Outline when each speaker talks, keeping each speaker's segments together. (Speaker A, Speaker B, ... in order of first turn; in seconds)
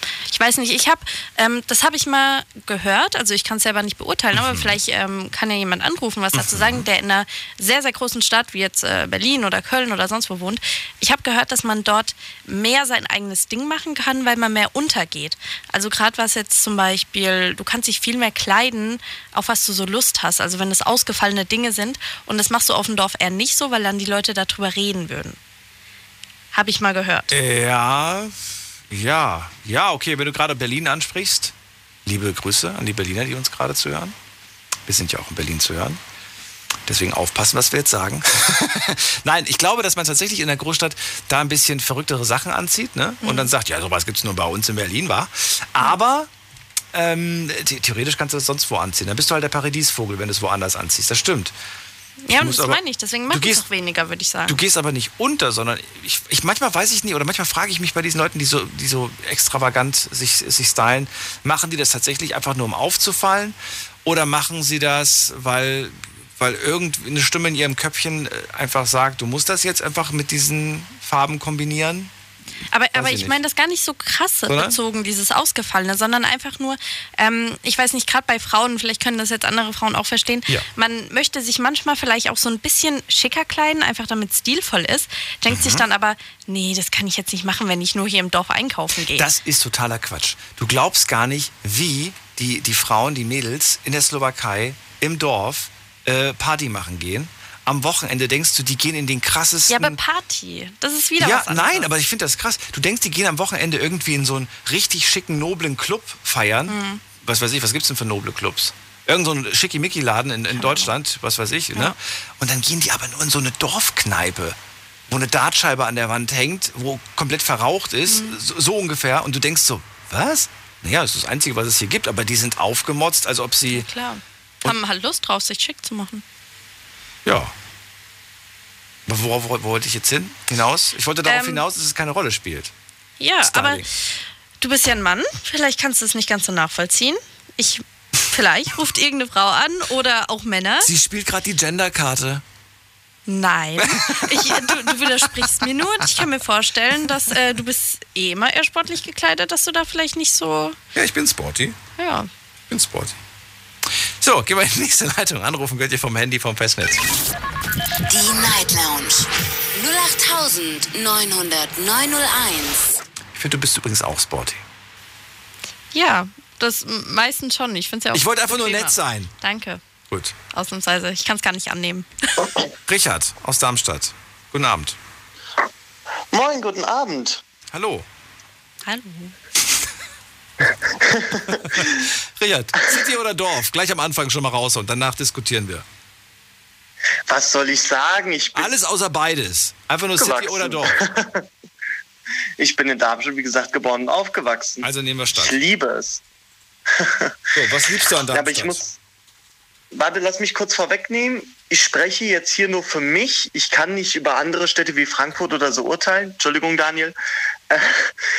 Speaker A: 0.2-25.4, 26.5-27.3, 43.2-43.5, 52.2-54.6, 72.7-89.3, 99.7-101.9, 106.7-107.0, 110.5-110.9, 118.1-118.4, 123.7-126.2, 131.2-131.6, 133.2-140.9, 143.3-150.8, 152.0-152.3, 165.9-169.8, 170.5-172.1, 178.8-179.3
Speaker B: 4.3-4.7, 6.3-6.8, 27.3-28.4, 28.9-31.5, 32.0-34.1, 34.9-36.0, 36.9-46.3, 46.9-51.5, 52.3-53.6, 54.5-72.1, 72.9-73.4, 74.5-74.8, 85.5-85.8, 89.1-100.0, 101.2-114.6, 115.1-123.9, 127.2-127.5, 129.1-132.7, 133.4-133.8, 140.8-142.4, 143.8-145.7, 150.9-151.8, 152.7-153.2, 154.2-157.0, 163.3-164.6, 168.1-169.3, 170.1-170.3, 172.8-175.0, 177.7-178.1, 181.5-185.8, 188.5-191.0, 194.8-195.6, 197.5-198.8
Speaker C: 158.1-163.0
Speaker D: 176.3-177.4, 180.9-182.0, 187.3-188.7, 190.2-191.4, 192.6-196.2, 196.9-197.4, 198.2-199.0, 199.9-207.1, 207.7-208.1